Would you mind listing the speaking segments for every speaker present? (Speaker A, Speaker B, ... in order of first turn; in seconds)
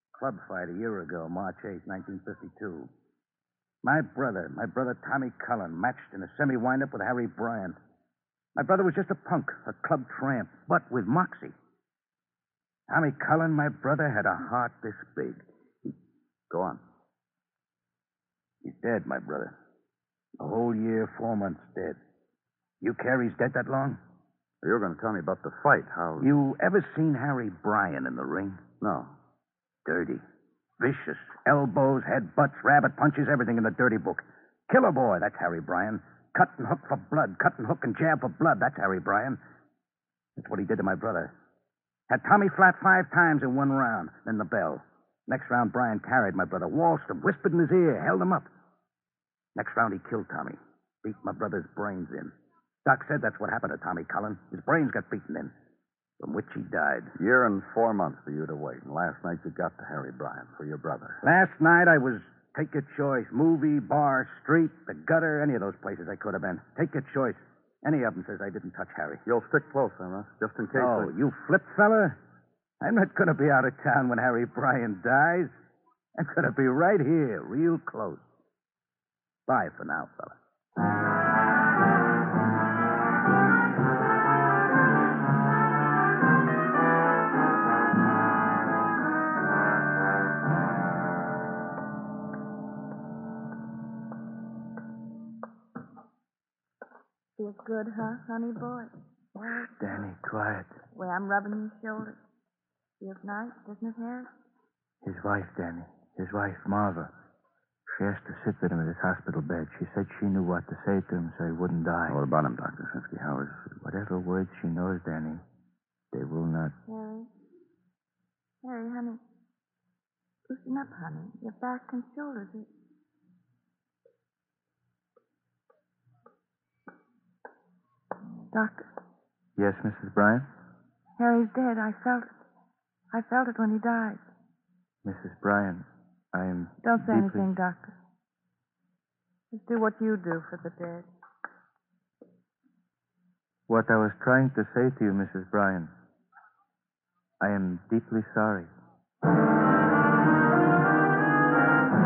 Speaker A: 0.1-2.9, 3.8-7.8, 8.6-11.5, 12.9-15.9, 18.6-19.5, 20.4-22.0, 22.8-24.0, 26.2-28.6, 29.8-30.2, 30.8-39.4, 40.4-41.3, 42.1-48.5, 49.5-52.3, 52.8-55.5, 56.2-57.1, 61.2-69.2, 70.7-72.2, 72.8-75.5, 76.2-78.2, 79.5-80.3
Speaker B: 16.5-16.8, 24.6-26.3, 28.8-29.1, 57.1-61.2, 69.2-71.1, 112.1-113.7
Speaker C: 97.4-98.9, 100.9-102.2, 103.0-104.3, 116.8-117.3, 118.6-119.2, 120.5-122.7, 128.5-128.9, 131.2-132.3, 133.1-134.2, 136.8-137.9, 139.5-141.1
Speaker D: 99.4-100.8, 105.0-107.1, 107.9-112.2, 113.8-115.4, 116.1-116.7, 129.6-130.5, 135.0-137.5, 143.7-145.9, 147.4-148.7